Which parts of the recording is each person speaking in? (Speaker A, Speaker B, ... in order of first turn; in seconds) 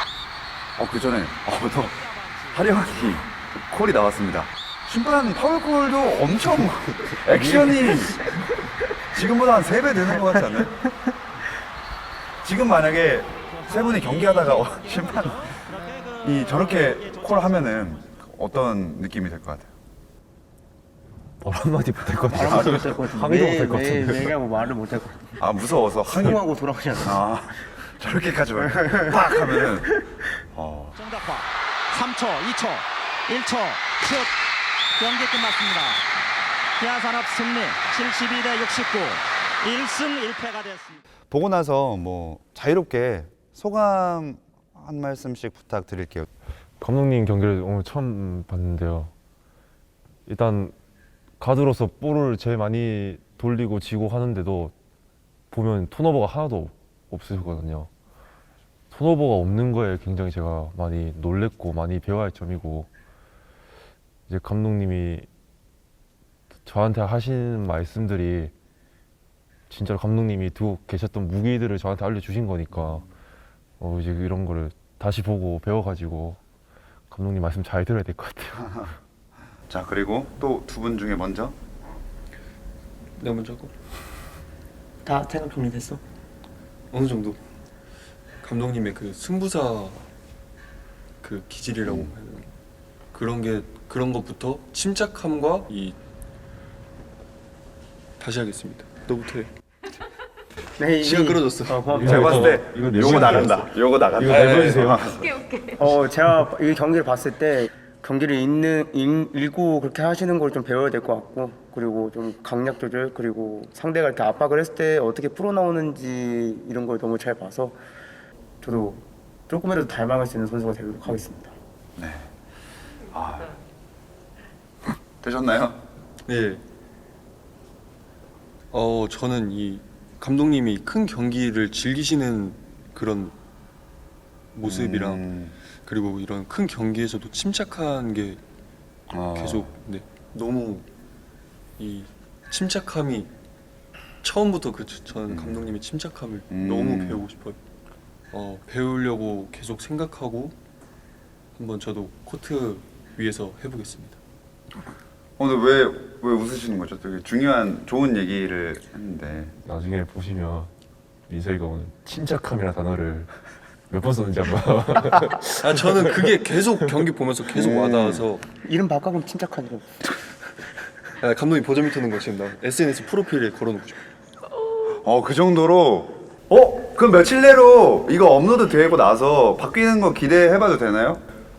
Speaker A: 0.8-2.0, 2.5-8.2, 9.1-10.8, 12.4-15.5, 16.2-19.7, 22.4-22.8, 25.4-26.3, 27.0-29.9, 30.5-31.0, 41.3-46.3, 72.7-73.0, 79.7-81.5, 91.8-92.1, 102.0-105.4, 122.0-122.3, 123.1-123.6, 125.2-125.8, 134.6-135.5, 139.1-139.7, 145.3-145.7, 146.5-147.2, 155.4-159.5, 167.5-168.3, 175.0-181.2
Speaker B: 1.8-3.2, 13.5-18.0, 30.9-34.3, 35.0-36.0, 36.8-41.0
Speaker C: 21.4-24.4, 46.8-49.1, 50.3-50.7, 51.4-54.7, 55.5-57.9, 58.9-62.9, 64.3-65.3, 66.6-68.5, 69.7-73.1, 73.8-76.4, 77.1-78.9, 101.9-105.0, 159.6-160.7, 161.3-163.3, 163.9-166.2
Speaker D: 22.2-25.5, 26.0-27.4, 28.5-30.2, 85.0-86.0, 100.8-102.4, 105.8-117.8, 118.6-121.5, 168.6-170.2
Speaker E: 83.2-83.8, 86.9-87.4, 88.4-90.1, 91.2-92.5, 93.1-96.0, 98.2-99.5, 101.0-103.3, 126.2-126.6, 128.7-133.3, 134.5-135.3, 135.9-138.4, 139.2-140.9, 141.8-143.3, 144.2-147.6, 148.3-150.5, 151.6-154.2, 165.5-168.4, 171.2-174.0